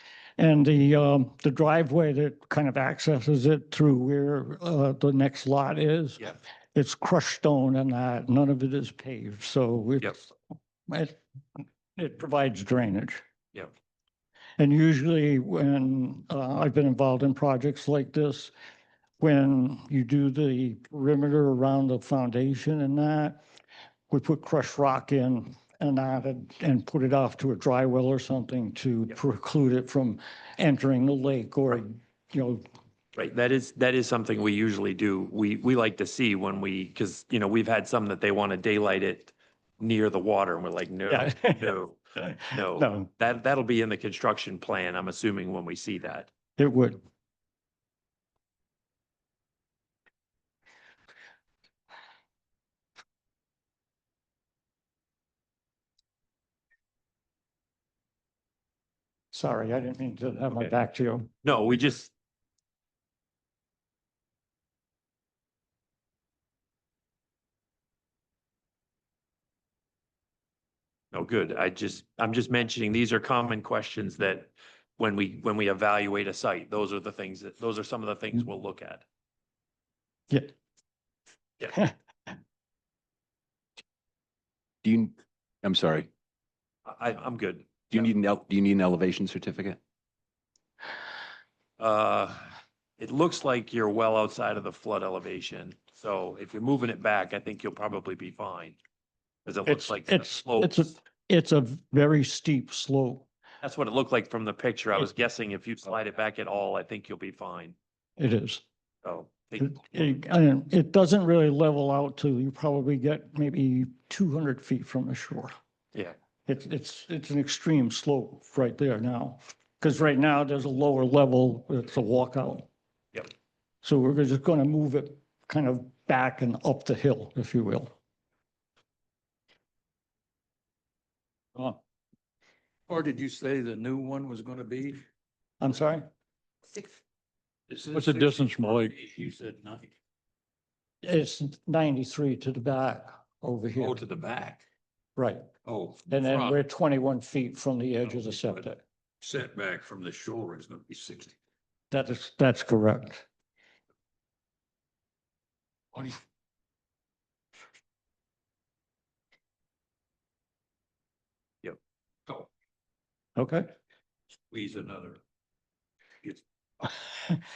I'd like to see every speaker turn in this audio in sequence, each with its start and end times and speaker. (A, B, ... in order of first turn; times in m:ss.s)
0:00.4-0:10.3 A
0:10.9-0:13.2 A
0:14.6-0:18.5 A
0:19.2-0:23.4 A
0:24.1-0:32.6 A
0:33.1-0:46.3 B
0:41.1-0:43.1 A
0:46.6-0:47.0 A
0:59.3-1:01.3 A
1:01.4-1:02.1 B
1:11.1-1:19.0 B
1:24.8-1:26.1 C
1:26.8-1:28.1 B
1:27.9-1:29.8 C
1:31.8-1:38.8 B
1:39.4-1:40.9 B
1:39.6-1:43.2 A
1:43.6-1:47.7 B
1:48.2-1:48.6 A
1:49.0-1:50.1 B
1:49.6-1:55.5 A
1:56.5-2:02.7 A
2:03.8-2:07.9 A
2:12.9-2:15.0 D
2:15.6-2:16.0 A
2:17.7-2:19.9 D
2:17.9-2:18.9 A
2:21.0-2:24.0 A
2:23.8-2:24.6 D
2:25.2-2:25.4 A
2:25.6-2:26.6 D
2:26.1-2:28.8 A
2:28.1-2:28.6 D
2:29.2-2:31.3 D
2:31.9-2:33.2 A
2:35.9-2:36.2 D
2:43.4-2:43.7 A
2:44.5-2:45.2 D